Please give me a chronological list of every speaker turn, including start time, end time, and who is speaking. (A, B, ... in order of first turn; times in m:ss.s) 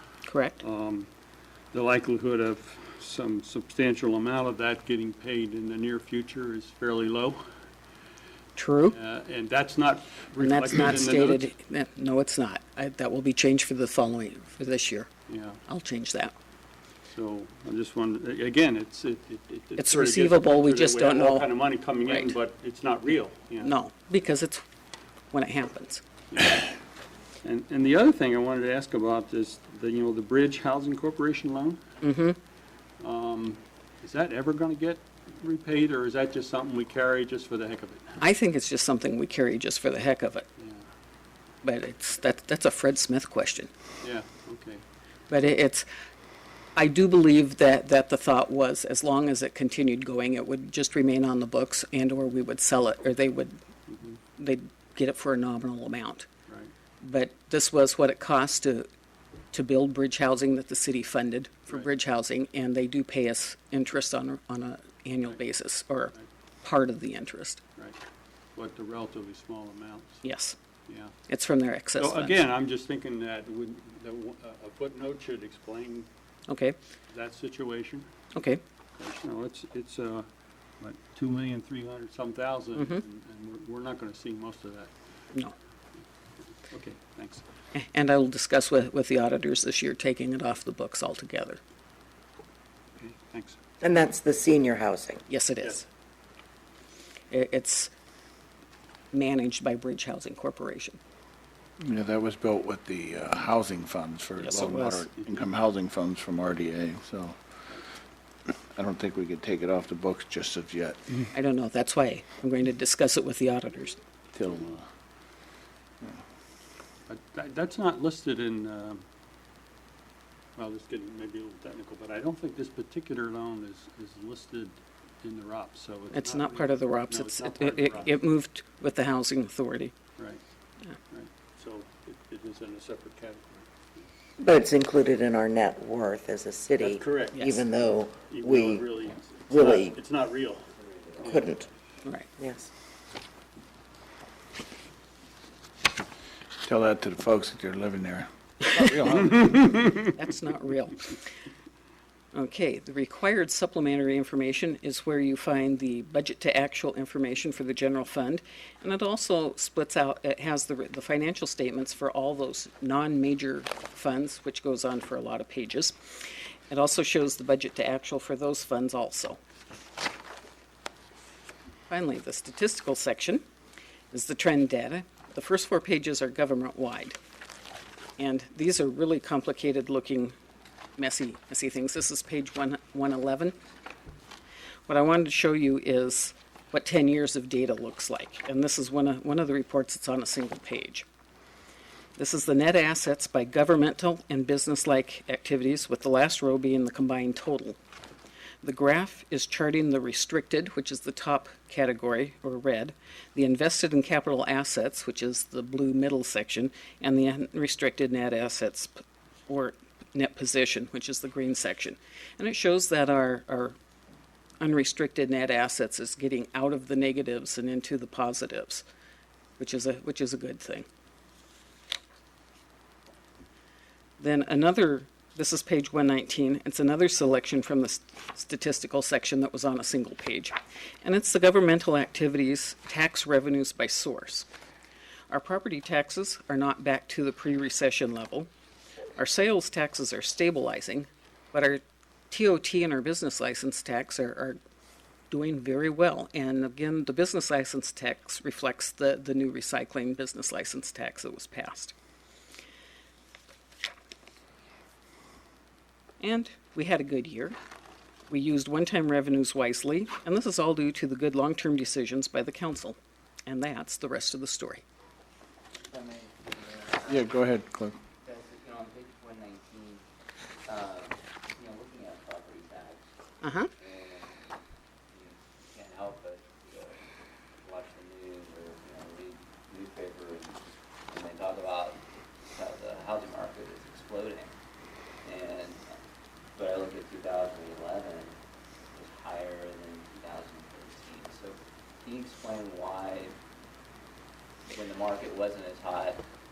0:00.3-0:00.6 A
0:00.6-0:01.1 B
0:01.7-0:07.4 B
0:08.6-0:09.0 A
0:08.9-0:11.5 B
0:10.4-0:15.1 A
0:15.3-0:15.6 B
0:15.7-0:16.3 A
0:17.1-0:23.7 B
0:19.8-0:21.5 A
0:22.1-0:22.3 A
0:23.6-0:24.6 A
0:25.3-0:26.0 A
0:26.3-0:26.7 B
0:27.4-0:31.8 B
0:32.0-0:32.4 A
0:33.0-0:38.2 B
0:38.2-0:40.5 A
0:40.6-0:40.8 B
0:41.6-0:43.7 A
0:44.0-0:44.8 B
0:45.3-0:45.9 A
0:46.8-0:53.5 A
0:53.9-0:54.2 B
0:54.4-0:56.3 A
0:57.0-0:58.9 A
0:59.5-1:07.6 A
1:08.6-1:10.2 B
1:10.2-1:10.6 A
1:10.9-1:11.1 B
1:11.3-1:12.4 A
1:12.0-1:16.1 B
1:16.5-1:16.8 A
1:17.1-1:18.1 B
1:18.3-1:18.6 A
1:19.0-1:20.3 B
1:20.8-1:24.9 B
1:26.7-1:27.4 B
1:27.8-1:31.6 A
1:33.0-1:33.6 B
1:33.8-1:35.2 C
1:35.3-1:35.8 A
1:37.3-1:37.9 A
1:39.1-1:41.0 A
1:41.8-1:47.4 D
1:44.4-1:45.0 A
1:48.7-1:51.2 D
1:51.3-1:54.0 A
1:54.3-1:54.8 D
1:57.1-1:59.0 B
2:00.6-2:08.1 B
2:06.1-2:09.9 A
2:11.1-2:13.7 B
2:14.4-2:19.0 C
2:16.8-2:21.4 B
2:19.5-2:20.0 C
2:20.7-2:21.6 E
2:21.2-2:21.6 C
2:22.4-2:22.7 C
2:26.6-2:30.0 D
2:29.4-2:30.0 B
2:30.1-2:31.1 A
2:32.3-2:46.2 A
2:46.7-2:49.4 A
2:51.9-2:53.4 A
2:54.1-2:57.2 A
2:58.2-3:00.3 A
3:01.0-3:03.5 A
3:04.9-3:11.0 A
3:12.2-3:17.8 A
3:18.6-3:33.8 A
3:34.6-3:38.8 A
3:39.6-3:40.8 A
3:44.2-3:54.5 A
3:55.3-3:58.5 A
3:59.2-4:04.6 A
4:05.3-4:11.9 A
4:16.2-4:17.6 A
4:18.3-4:24.8 A
4:25.7-4:27.4 E
4:27.1-4:28.0 D
4:28.2-4:30.0 E
4:30.6-4:33.0 E
4:33.4-4:33.7 A
4:33.8-4:34.5 E
4:35.1-4:37.0 E
4:37.6-4:44.5 E
4:45.2-4:46.0 E
4:46.6-4:48.4 E
4:48.9-4:53.4 E
4:54.7-4:56.2 E